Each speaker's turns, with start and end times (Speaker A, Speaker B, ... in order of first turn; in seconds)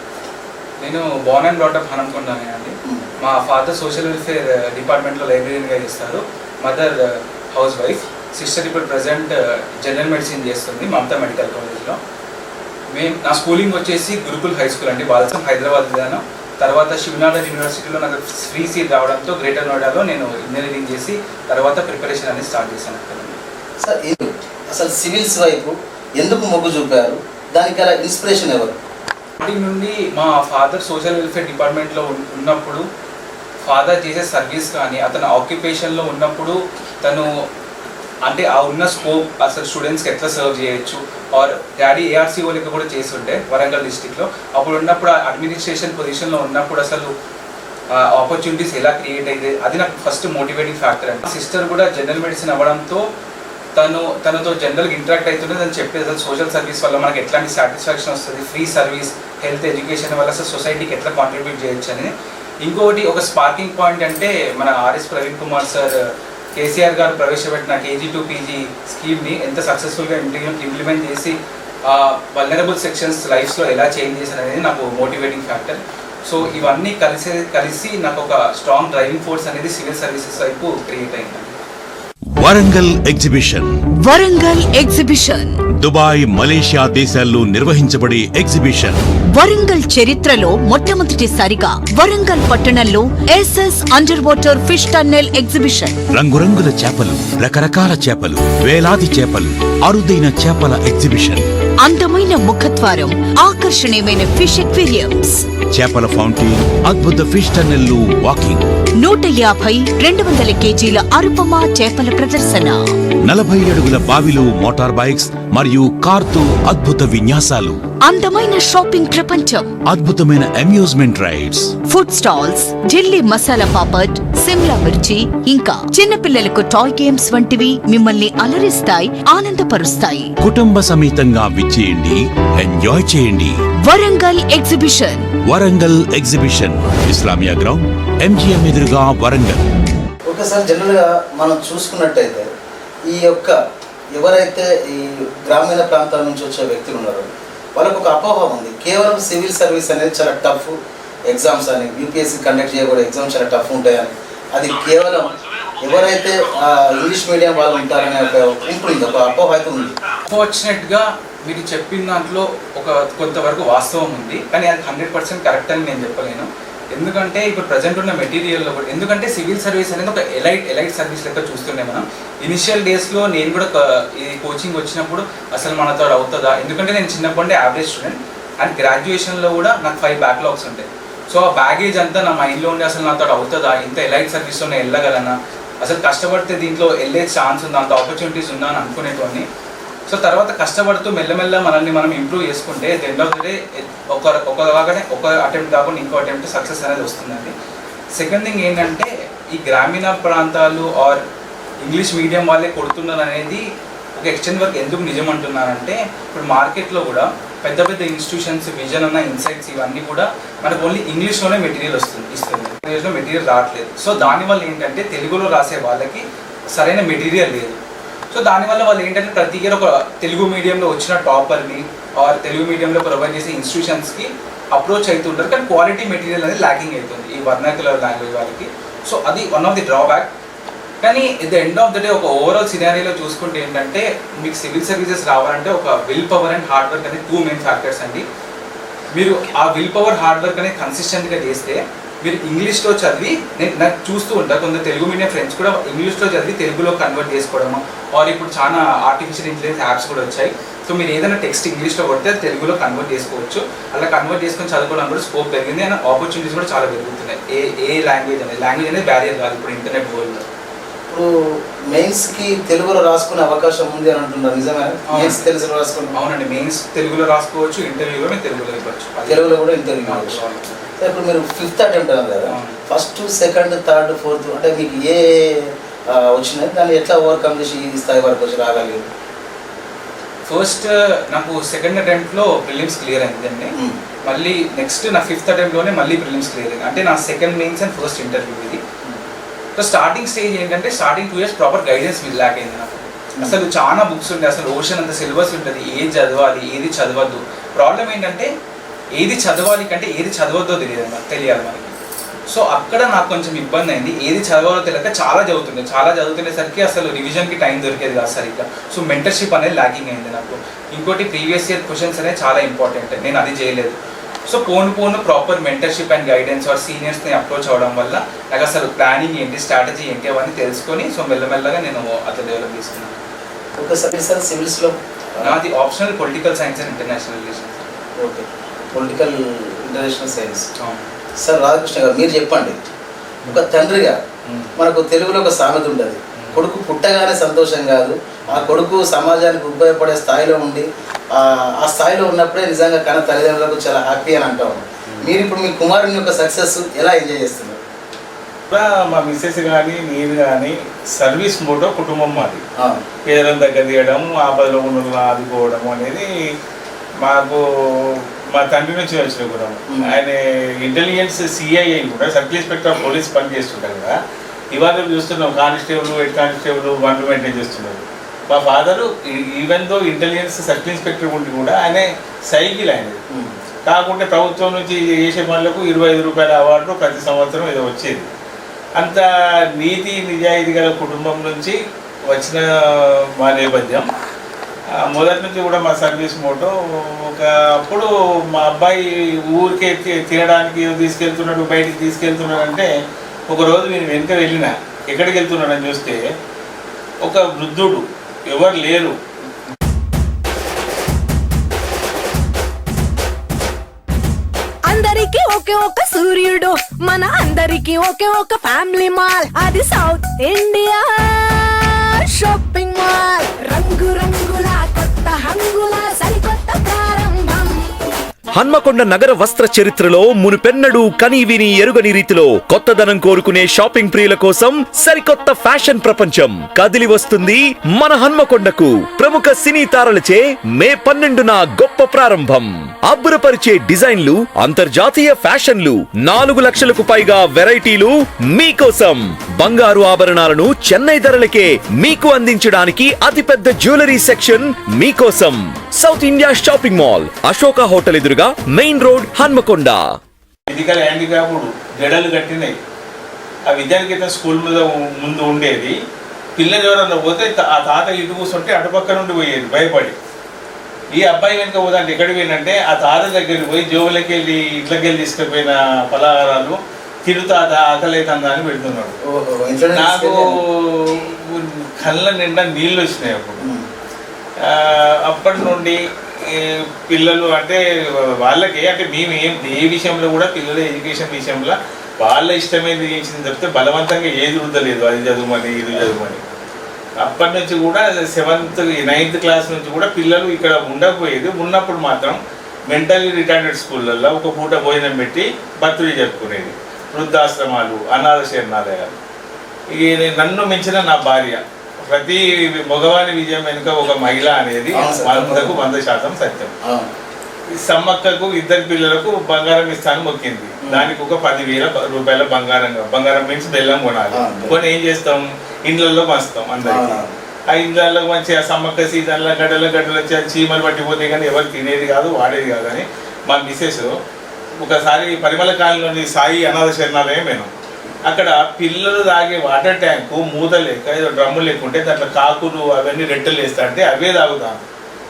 Speaker A: 0.8-12.0, 12.9-23.4, 29.4-32.8, 33.7-37.3, 38.2-47.1, 47.9-53.0, 53.8-62.1, 62.6-66.0, 66.6-71.4, 71.9-81.6, 160.3-189.5, 190.1-197.5, 198.2-201.2, 201.8-203.6, 204.2-217.8, 218.3-230.3, 231.0-238.2, 239.2-260.4, 265.1-265.5, 266.1-270.9, 272.5-272.8, 280.5-283.7, 284.2-288.8, 289.8-298.5, 299.1-301.9, 302.5-323.2, 325.4-327.9, 330.8-331.1, 334.5-334.7
Speaker B: 23.8-28.8, 140.3-142.5, 143.1-143.6, 144.1-150.8, 151.3-160.0, 261.1-266.2, 269.3-270.4, 271.0-279.1, 323.8-325.6, 328.2-330.7, 331.4-332.8, 333.5-334.2, 334.8-347.8, 352.8-353.0, 469.2-470.5, 473.6-473.9, 504.9-505.8, 506.8-507.1, 510.9-511.1, 514.3-514.8, 516.8-517.3
Speaker C: 82.3-83.7, 85.8-89.0, 96.1-101.5, 105.7-108.7, 113.2-117.8, 119.9-121.7, 130.4-133.6, 135.5-139.7
Speaker D: 84.0-85.6, 89.3-96.0, 101.8-105.5, 109.0-112.8, 118.1-119.7, 121.9-130.3, 133.8-135.3
Speaker E: 348.7-352.6, 353.2-356.3, 357.2-364.1, 364.7-373.2, 373.9-378.3, 379.0-379.2, 379.8-381.8, 382.3-384.1, 385.1-392.9, 393.5-396.2, 397.2-399.1, 450.7-452.8, 453.7-455.9, 456.6-460.2, 461.2-469.1, 470.0-473.6, 474.7-486.4, 487.2-492.4, 492.9-499.1, 499.9-506.7, 507.8-524.1, 524.8-527.7, 528.3-534.8
Speaker F: 404.9-417.9
Speaker G: 418.6-450.0